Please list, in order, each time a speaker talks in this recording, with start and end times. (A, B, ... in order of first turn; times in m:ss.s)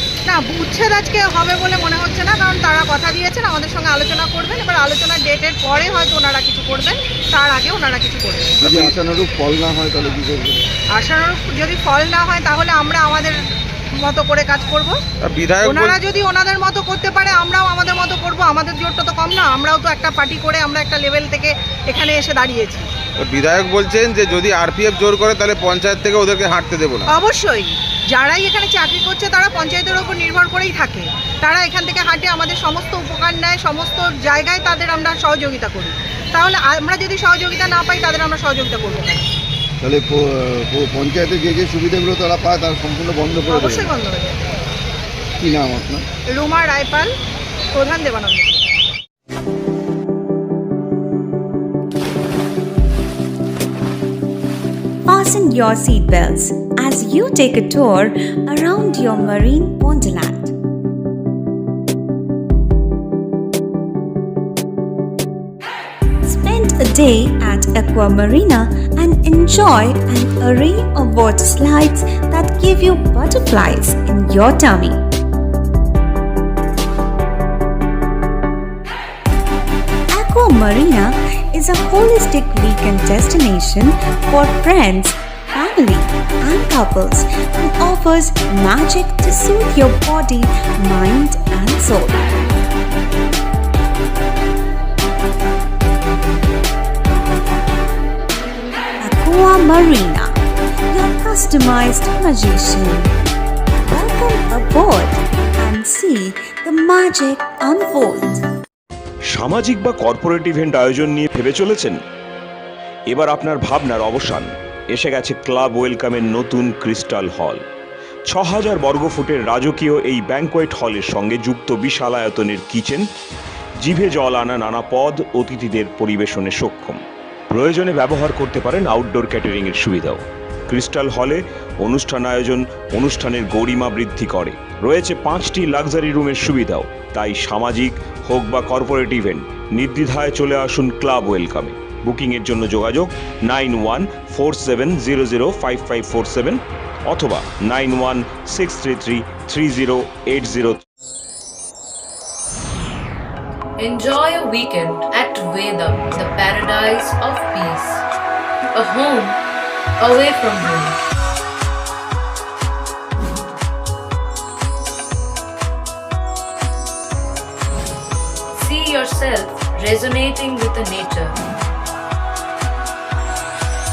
0:00.3-0:08.9 A
0:08.6-0:10.6 B
0:11.0-0:13.4 A
0:14.0-0:15.0 A
0:15.3-0:15.9 C
0:15.6-0:22.9 A
0:23.2-0:27.1 C
0:27.1-0:39.2 A
0:39.8-0:44.0 B
0:43.5-0:44.4 A
0:45.4-0:46.1 B
0:46.3-0:47.1 A
0:47.8-0:48.7 A
0:55.1-1:00.5 D
1:06.3-1:15.0 D
1:20.1-1:32.3 D
1:39.0-1:40.4 D
1:40.9-1:43.1 D
1:43.9-1:48.4 D
1:49.3-1:52.0 E
1:53.1-1:57.6 E
1:58.3-2:03.1 E
2:03.8-2:30.8 E
2:33.8-2:38.0 F
2:38.8-2:39.4 F
2:40.0-2:41.0 F
2:48.6-2:51.4 F